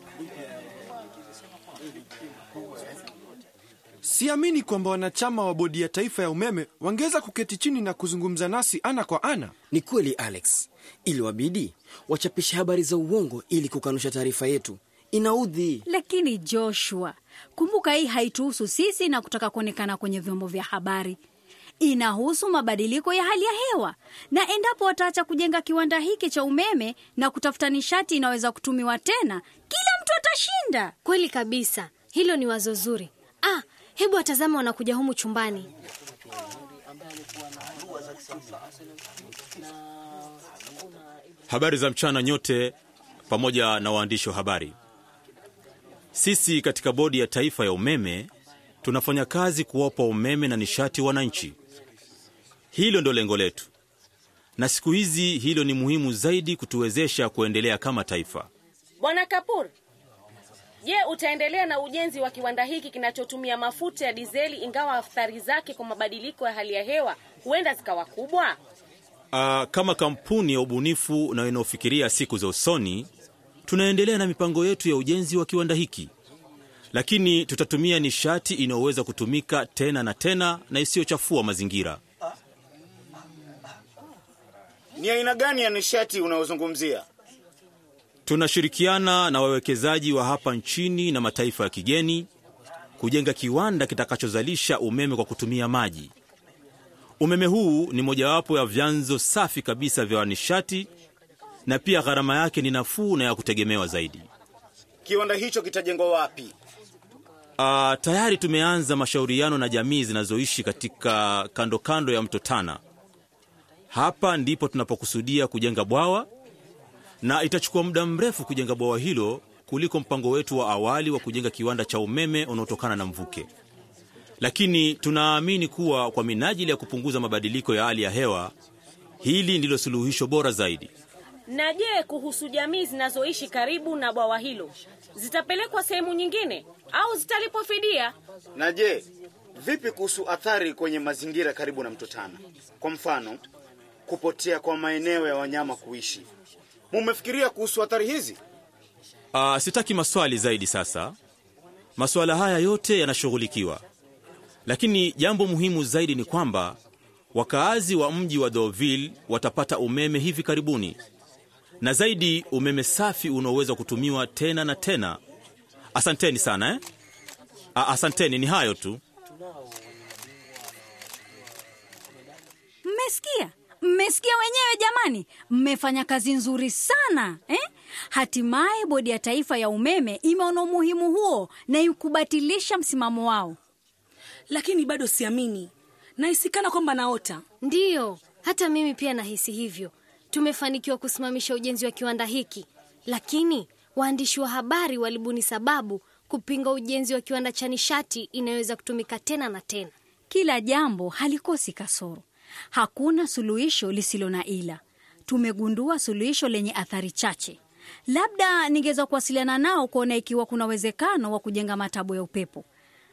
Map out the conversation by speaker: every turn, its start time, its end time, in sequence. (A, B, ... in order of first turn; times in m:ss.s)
0:04.0-0:09.5 A
0:09.7-0:15.8 B
0:15.9-0:21.2 C
0:21.8-0:31.0 C
0:31.1-0:35.7 D
0:41.5-0:42.8 E
0:43.3-0:44.7 E
0:46.1-0:48.3 E
0:48.8-0:51.6 E
0:52.7-0:53.7 E
0:54.6-0:58.5 E
0:59.0-0:59.7 F
1:00.8-1:08.6 F
1:09.3-1:13.1 E
1:13.7-1:16.1 E
1:16.9-1:22.0 E
1:25.0-1:27.0 G
1:28.3-1:32.3 E
1:33.0-1:36.1 E
1:37.2-1:40.9 E
1:41.7-1:44.3 E
1:45.1-1:46.5 G
1:47.6-1:52.8 E
1:53.9-1:56.3 E
1:57.2-2:03.5 E
2:04.4-2:08.5 E
2:09.2-2:10.9 E
2:11.5-2:18.2 F
2:18.6-2:19.0 G
2:19.6-2:23.4 G
2:24.1-2:26.2 G
2:26.9-2:28.4 G
2:29.3-2:31.2 E
2:32.0-2:33.8 E
2:34.7-2:36.8 E
2:37.3-2:41.0 E
2:41.8-2:45.2 E
2:46.0-2:46.8 E
2:47.8-2:49.0 E
2:52.8-3:03.6 C
3:04.5-3:07.4 H
3:07.6-3:19.9 D
3:20.3-3:27.6 C
3:28.1-3:32.7 C